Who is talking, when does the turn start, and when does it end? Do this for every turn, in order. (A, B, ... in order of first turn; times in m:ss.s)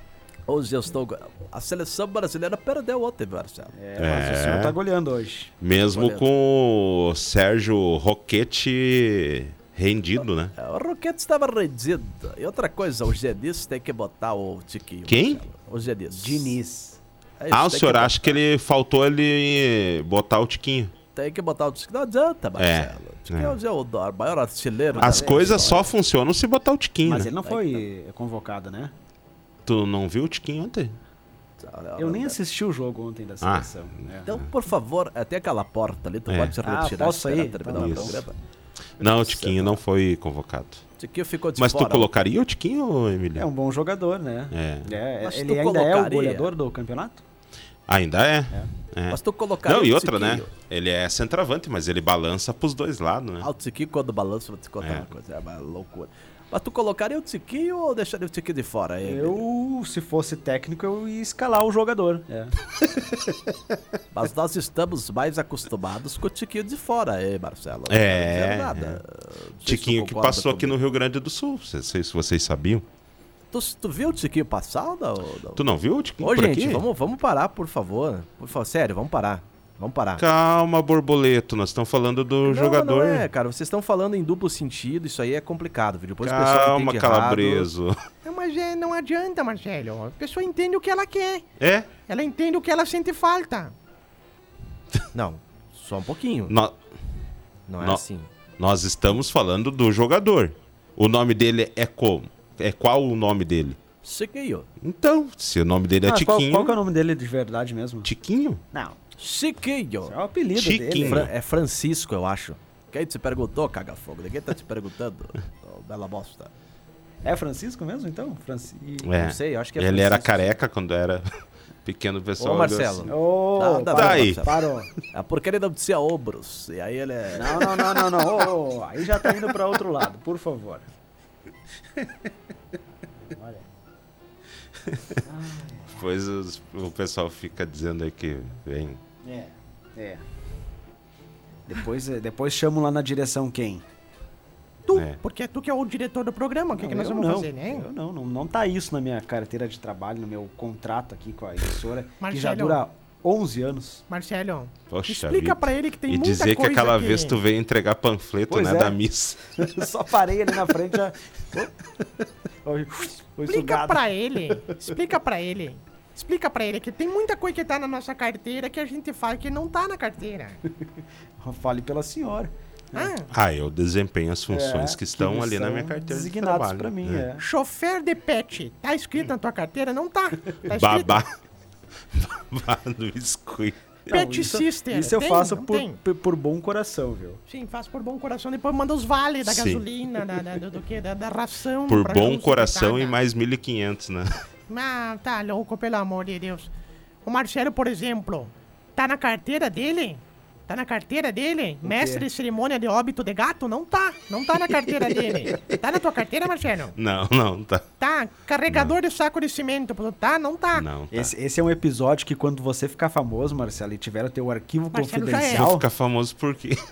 0:00.5-0:03.8 A
0:03.7-0:05.5 B
0:04.0-0:04.7 C
0:05.6-0:10.5 C
0:05.9-0:06.3 A
0:10.5-0:16.5 A
0:15.1-0:15.4 C
0:16.1-0:17.0 B
0:17.4-0:18.4 A
0:17.5-0:20.9 C
0:21.1-0:25.9 A
0:22.6-0:23.6 C
0:24.9-0:25.9 B
0:25.0-0:27.3 C
0:27.0-0:28.9 B
0:27.4-0:27.8 A
0:29.6-0:31.0 C
0:31.6-0:32.4 A
0:32.0-0:34.3 B
0:33.4-0:33.7 C
0:34.2-0:38.4 A
0:36.3-0:36.6 C
0:36.6-0:38.2 B
0:37.7-0:38.2 C
0:39.0-0:40.8 C
0:39.0-0:39.8 A
0:41.0-0:42.1 A
0:41.6-0:43.5 C
0:43.4-0:47.2 B
0:44.5-0:44.9 C
0:45.2-0:46.5 A
0:47.9-0:53.5 C
0:49.1-0:50.5 A
0:53.4-0:59.4 A
0:59.0-1:03.4 B
1:04.1-1:10.8 A
1:07.9-1:09.0 C
1:09.6-1:12.8 C
1:13.5-1:15.7 A
1:15.6-1:16.8 C
1:16.2-1:20.2 A
1:20.2-1:23.3 C
1:22.4-1:27.7 A
1:26.2-1:28.0 C
1:28.2-1:31.4 D
1:31.6-1:31.9 C
1:32.1-1:33.7 D
1:35.1-1:36.6 A
1:36.5-1:36.7 C
1:37.7-1:38.3 A
1:38.6-1:43.8 C
1:44.0-1:44.7 A
1:44.8-1:46.8 C
1:46.0-1:48.1 B
1:48.0-1:48.6 C
1:49.2-1:50.2 A
1:50.0-1:51.3 B
1:50.5-1:51.3 C
1:51.0-1:56.5 A
1:57.2-1:59.2 B
1:59.0-2:03.1 C
1:59.2-2:00.6 A
2:02.4-2:04.6 A
2:03.0-2:04.9 B
2:03.9-2:04.4 C
2:05.1-2:08.3 A
2:07.3-2:10.8 B
2:13.2-2:13.6 B
2:14.9-2:15.2 C
2:15.2-2:16.0 B
2:15.9-2:19.0 C
2:19.2-2:20.2 B
2:21.7-2:23.8 B
2:24.8-2:27.9 D
2:24.9-2:25.2 C
2:26.7-2:34.0 B
2:32.2-2:32.8 D
2:34.1-2:37.4 D
2:34.9-2:39.5 C
2:38.5-2:39.0 B
2:39.5-2:44.7 B
2:43.0-2:50.6 D
2:50.6-2:53.1 B
2:52.9-2:53.3 D
2:53.3-2:57.2 C
2:54.5-2:57.4 B
2:57.4-3:01.2 D
3:00.7-3:01.3 C
3:02.1-3:04.0 C
3:04.1-3:06.0 D
3:04.1-3:07.4 B
3:07.5-3:13.2 D
3:09.4-3:09.8 C
3:11.9-3:14.3 C
3:14.7-3:16.7 D
3:17.2-3:27.0 D
3:21.8-3:22.3 B
3:27.0-3:27.8 C
3:28.0-3:30.9 D
3:30.7-3:31.3 C
3:31.1-3:35.8 B
3:34.9-3:35.7 D
3:35.4-3:36.8 C